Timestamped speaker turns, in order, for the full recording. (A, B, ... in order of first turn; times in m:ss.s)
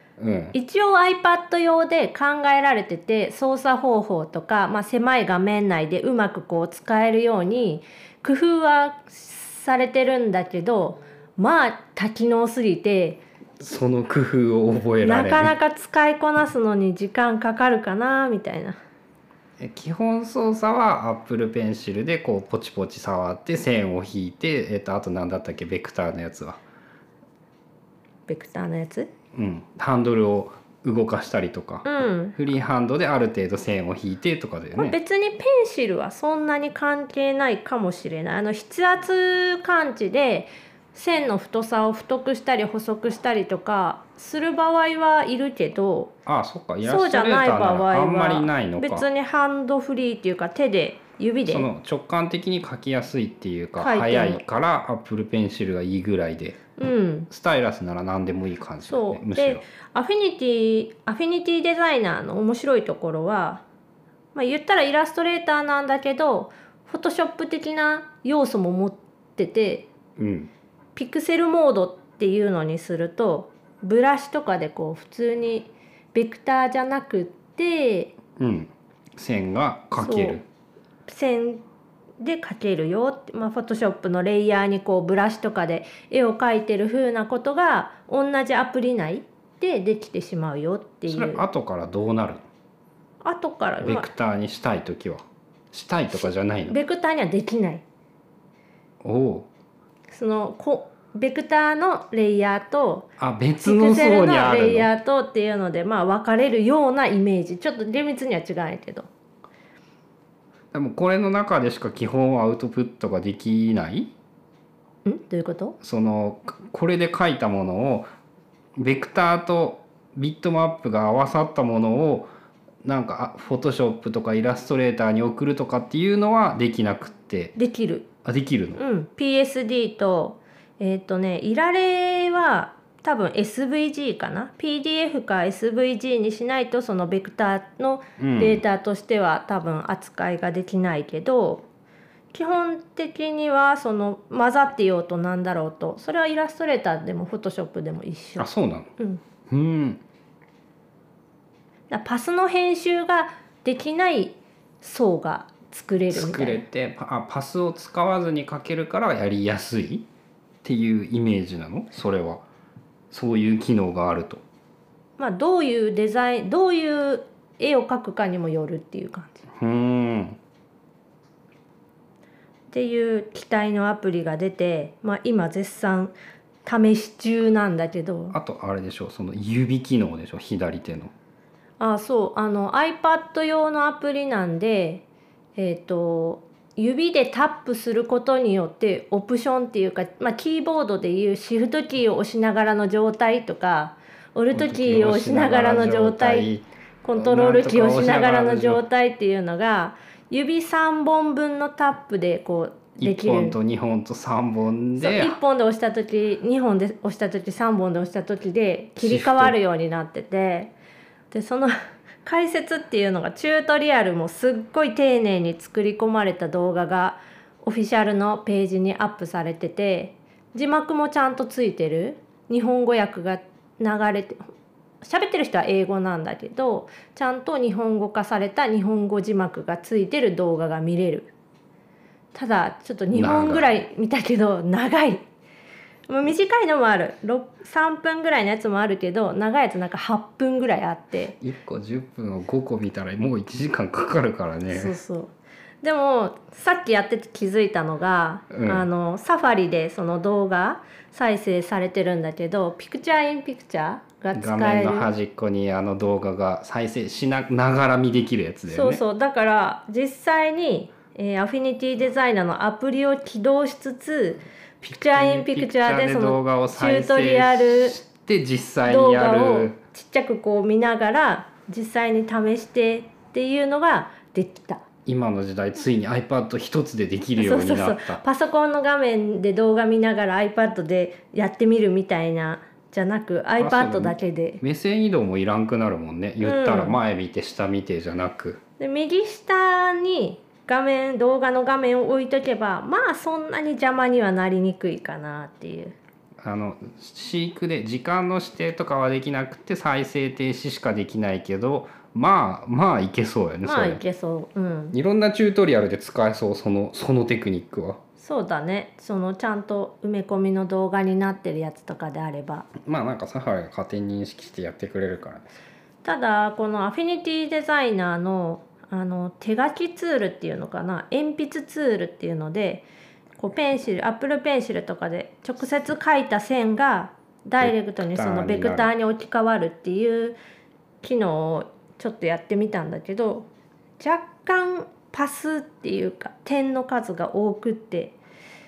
0:00.2-0:00.6 A
0:00.5-0:13.2 B
0:13.6-0:15.5 A
0:15.0-0:18.8 B
0:19.6-0:26.6 A
0:28.3-0:29.1 B
0:29.3-0:35.0 A
0:31.8-0:32.4 B
0:34.8-0:46.1 B
0:46.3-0:49.1 A
0:46.8-0:51.7 B
0:51.5-0:56.7 A
0:53.8-0:54.4 B
0:56.8-0:57.3 B
0:57.3-0:59.6 A
0:58.8-1:03.6 B
1:04.3-1:09.9 B
1:10.2-1:10.5 A
1:11.0-1:18.1 B
1:18.4-1:20.4 A
1:20.0-1:20.4 B
1:21.1-1:21.6 B
1:22.2-1:31.4 B
1:31.1-1:32.4 A
1:33.2-1:34.1 B
1:33.8-1:36.8 A
1:36.7-1:37.8 B
1:39.0-1:39.5 A
1:40.1-1:43.1 B
1:43.2-1:44.9 A
1:43.6-1:49.1 B
1:50.7-1:54.1 A
1:55.0-1:55.8 B
1:55.8-1:58.1 A
1:58.8-2:02.3 A
2:02.8-2:07.6 A
2:07.6-2:08.1 B
2:08.2-2:08.8 A
2:08.8-2:21.6 B
2:18.2-2:18.6 A
2:22.3-2:29.2 B
2:28.4-2:28.9 A
2:29.5-2:30.0 A
2:31.9-2:36.6 B
2:36.1-2:40.1 A
2:40.6-2:42.4 A
2:43.1-2:44.4 A
2:45.2-2:49.4 B
2:49.6-2:50.4 A
2:52.7-2:56.1 B
2:56.6-2:58.4 B
2:58.3-3:01.1 A
3:01.8-3:05.0 B
3:05.6-3:16.5 B
3:14.5-3:16.7 A
3:17.0-3:23.6 B
3:17.2-3:18.8 A
3:23.0-3:25.4 A
3:25.0-3:30.7 B
3:29.0-3:29.6 A
3:31.3-3:44.4 B
3:45.0-3:51.3 B
3:52.3-3:55.2 B
3:53.1-3:53.8 A
3:56.1-4:01.4 B
4:01.4-4:05.0 A
4:04.7-4:15.1 B
4:08.5-4:08.9 A
4:14.4-4:19.0 A
4:18.7-4:28.0 B
4:24.8-4:29.8 A
4:28.8-4:34.8 B
4:35.1-4:38.2 A
4:37.4-4:44.6 B
4:43.6-4:48.6 A
4:46.4-4:47.0 B
4:48.8-4:56.0 B
4:56.4-5:04.0 A
5:03.6-5:05.0 B
5:04.9-5:08.0 A
5:08.2-5:12.7 B
5:12.8-5:15.5 A
5:16.0-5:22.8 B
5:23.4-5:30.4 B
5:27.6-5:28.9 A
5:31.0-5:33.5 B
5:34.0-5:38.2 B